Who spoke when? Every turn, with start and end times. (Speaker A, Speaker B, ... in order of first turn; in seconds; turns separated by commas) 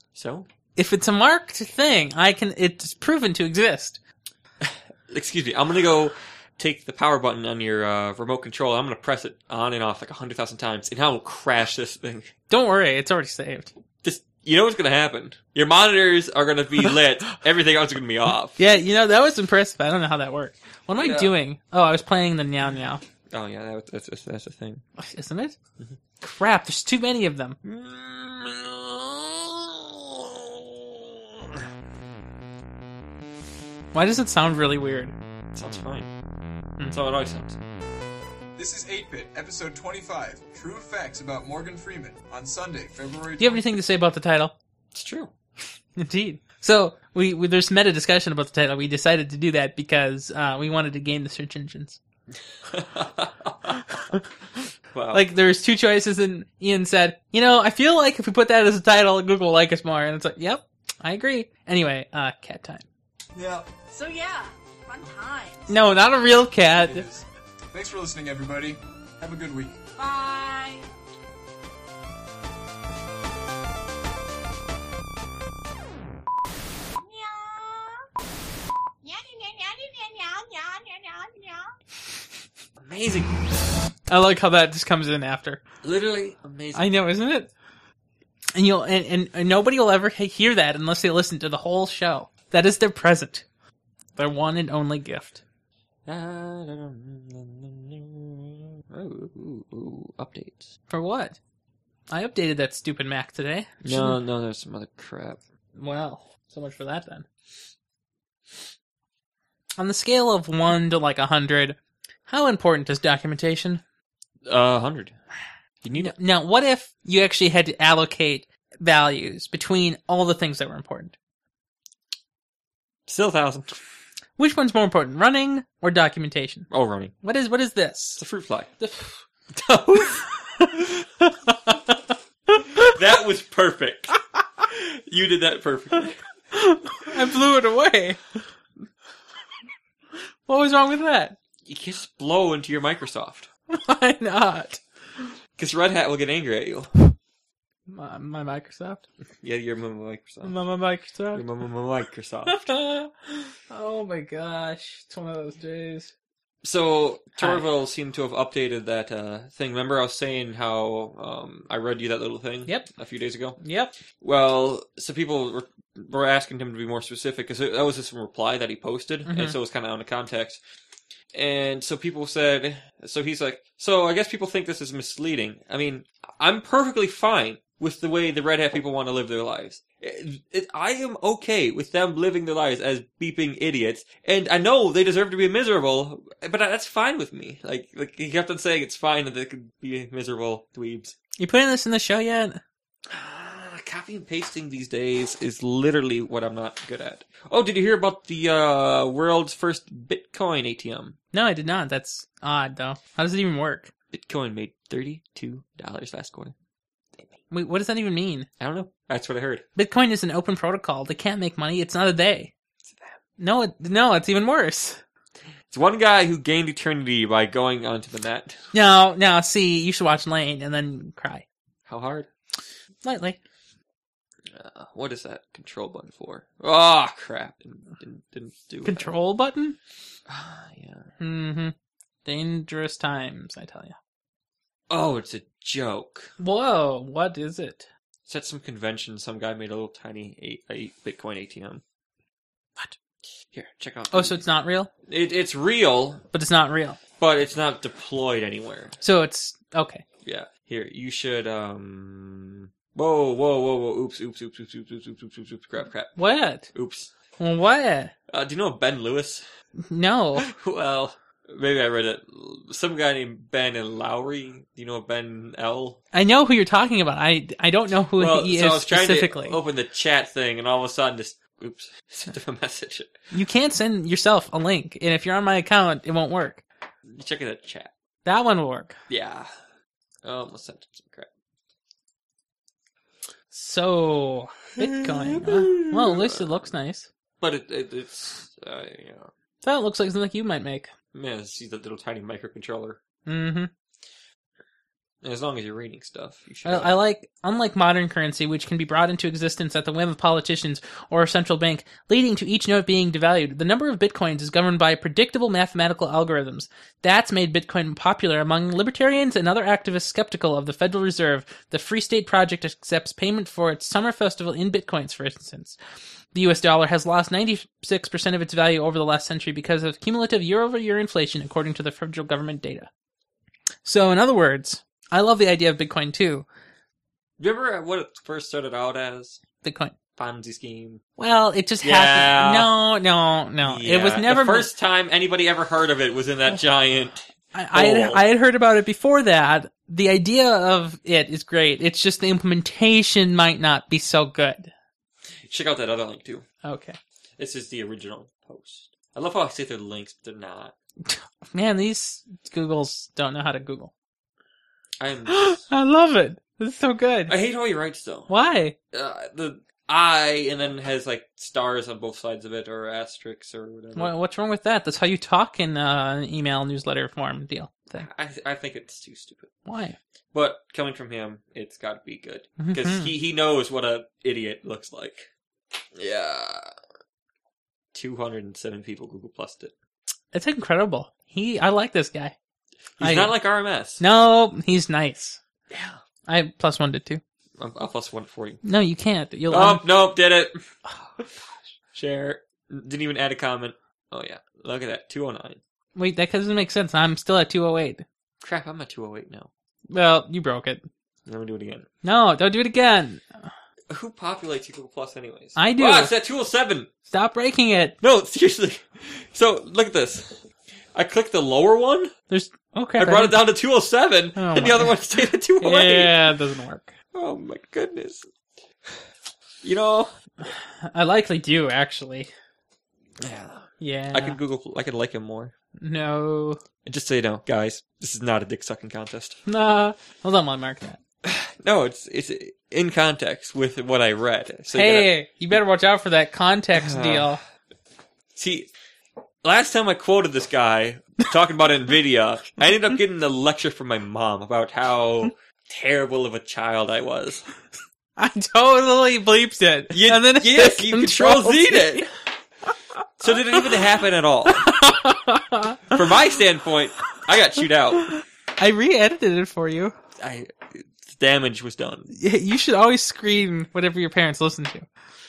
Speaker A: 0.1-0.5, Speaker B: 0.8-4.0, Speaker A: 4.6-12.3, Speaker B: 12.5-13.7, Speaker A: 14.0-18.6, Speaker B: 18.6-23.0, Speaker A: 20.9-21.3, Speaker A: 23.3-24.8, Speaker B: 25.0-25.5, Speaker B: 26.2-27.6, Speaker A: 27.6-31.6, Speaker B: 33.9-35.1, Speaker A: 35.5-36.1, Speaker A: 36.9-37.6, Speaker C: 38.6-43.8, Speaker B: 43.4-44.5, Speaker A: 44.9-45.3, Speaker B: 46.0-52.0, Speaker A: 52.6-54.0, Speaker A: 54.9-55.3, Speaker B: 55.1-62.8, Speaker A: 63.4-63.7, Speaker D: 63.9-65.7, Speaker B: 65.7-67.0, Speaker C: 66.6-69.8, Speaker D: 70.0-70.8, Speaker D: 77.1-77.9, Speaker D: 79.0-81.6, Speaker A: 82.8-83.4, Speaker B: 84.1-85.6, Speaker A: 85.8-87.0, Speaker B: 86.7-87.5, Speaker B: 88.5-93.4, Speaker B: 94.2-95.4, Speaker A: 96.0-100.7, Speaker B: 100.9-101.4, Speaker B: 102.1-104.2, Speaker A: 103.8-105.4, Speaker B: 105.8-107.2, Speaker B: 109.8-113.8, Speaker A: 114.4-115.2, Speaker A: 115.8-116.2, Speaker B: 115.9-121.1, Speaker A: 123.1-123.8, Speaker B: 124.4-126.7, Speaker A: 126.7-127.1, Speaker B: 127.2-128.2, Speaker A: 128.2-128.7, Speaker B: 128.8-129.2, Speaker A: 129.5-130.2, Speaker B: 130.6-131.9, Speaker B: 132.5-132.9, Speaker A: 132.8-134.1, Speaker A: 134.7-136.2, Speaker B: 136.5-138.2, Speaker B: 140.5-141.4, Speaker A: 141.6-143.5, Speaker B: 143.7-145.3, Speaker A: 145.6-146.9, Speaker B: 147.9-149.0, Speaker A: 149.4-150.6, Speaker B: 150.4-151.4, Speaker A: 151.3-152.7, Speaker B: 152.4-156.1, Speaker A: 156.6-163.6, Speaker B: 157.3-157.7, Speaker B: 163.6-163.9, Speaker A: 164.2-170.6, Speaker B: 169.2-169.6, Speaker A: 171.3-191.2, Speaker B: 191.4-192.6, Speaker A: 193.1-201.2, Speaker B: 201.3-203.9, Speaker A: 204.1-206.5, Speaker B: 207.5-208.5, Speaker A: 208.6-209.6, Speaker B: 209.8-212.5, Speaker A: 212.8-213.2, Speaker B: 213.4-215.0, Speaker A: 215.7-218.6, Speaker B: 218.7-221.4, Speaker A: 221.8-222.3, Speaker B: 223.0-223.4, Speaker A: 224.5-229.2, Speaker B: 228.8-229.8, Speaker A: 230.3-231.1, Speaker B: 231.2-231.7, Speaker B: 232.2-234.0, Speaker A: 234.9-236.3, Speaker B: 236.4-237.9, Speaker A: 238.3-241.8, Speaker A: 243.5-244.4, Speaker B: 244.1-244.9, Speaker A: 245.1-246.2, Speaker B: 246.3-247.0, Speaker A: 247.2-249.0, Speaker B: 249.0-250.0, Speaker A: 250.2-256.2, Speaker B: 256.1-256.7, Speaker A: 256.7-257.1, Speaker B: 257.4-258.1, Speaker A: 258.3-259.5, Speaker B: 259.9-260.4, Speaker A: 260.4-266.0, Speaker B: 266.1-269.6, Speaker A: 268.1-273.2, Speaker B: 273.3-276.6, Speaker A: 277.1-277.9, Speaker B: 278.2-278.9, Speaker A: 279.1-279.5, Speaker A: 280.2-281.3, Speaker B: 283.5-287.1, Speaker A: 284.8-286.7, Speaker A: 287.4-289.3, Speaker B: 289.6-290.9, Speaker A: 291.1-293.0, Speaker B: 293.2-293.7, Speaker A: 295.2-297.0, Speaker B: 296.6-315.8, Speaker B: 316.3-322.9, Speaker B: 323.8-326.4, Speaker A: 327.4-329.4, Speaker B: 329.6-329.9, Speaker A: 330.2-331.0, Speaker B: 331.2-334.7, Speaker A: 331.8-332.7, Speaker A: 333.6-338.2, Speaker B: 337.5-344.7, Speaker A: 345.4-346.4, Speaker B: 346.6-347.0, Speaker A: 347.4-350.7, Speaker B: 351.0-353.9, Speaker A: 355.0-355.6, Speaker B: 355.3-357.3, Speaker A: 357.3-358.3, Speaker B: 358.3-358.7, Speaker A: 358.9-364.1, Speaker B: 363.9-368.1, Speaker A: 367.9-369.5, Speaker B: 369.6-370.0, Speaker A: 370.3-375.3, Speaker B: 372.6-373.1, Speaker A: 375.9-376.7, Speaker A: 377.9-379.7, Speaker B: 380.3-382.3, Speaker A: 383.0-384.0, Speaker B: 383.0-383.4, Speaker B: 384.0-385.4, Speaker A: 385.7-386.0, Speaker B: 386.3-387.2, Speaker A: 387.6-388.6, Speaker B: 388.6-389.9, Speaker A: 389.5-390.6, Speaker A: 391.9-395.6, Speaker B: 395.9-398.0, Speaker A: 398.4-399.5, Speaker B: 399.9-400.9, Speaker A: 401.2-401.9, Speaker B: 402.0-403.5, Speaker A: 403.9-406.9, Speaker B: 405.6-406.1, Speaker B: 407.1-407.9, Speaker A: 408.0-412.1, Speaker B: 412.3-413.4, Speaker A: 413.0-416.3, Speaker B: 414.4-415.0, Speaker B: 415.6-416.9, Speaker A: 417.1-418.3, Speaker A: 419.6-420.1, Speaker B: 420.4-422.3, Speaker A: 423.2-425.5, Speaker B: 423.8-424.4, Speaker B: 425.8-426.6, Speaker A: 426.8-429.4, Speaker B: 429.5-431.0, Speaker A: 431.2-435.6, Speaker B: 434.7-437.4, Speaker A: 436.7-437.4, Speaker A: 438.3-438.7, Speaker A: 439.4-447.5, Speaker B: 448.2-452.1, Speaker A: 449.9-452.1, Speaker B: 453.0-453.6, Speaker A: 453.2-454.8, Speaker B: 454.5-455.9, Speaker A: 455.9-458.1, Speaker B: 458.0-459.9, Speaker A: 460.2-462.1, Speaker B: 462.1-464.9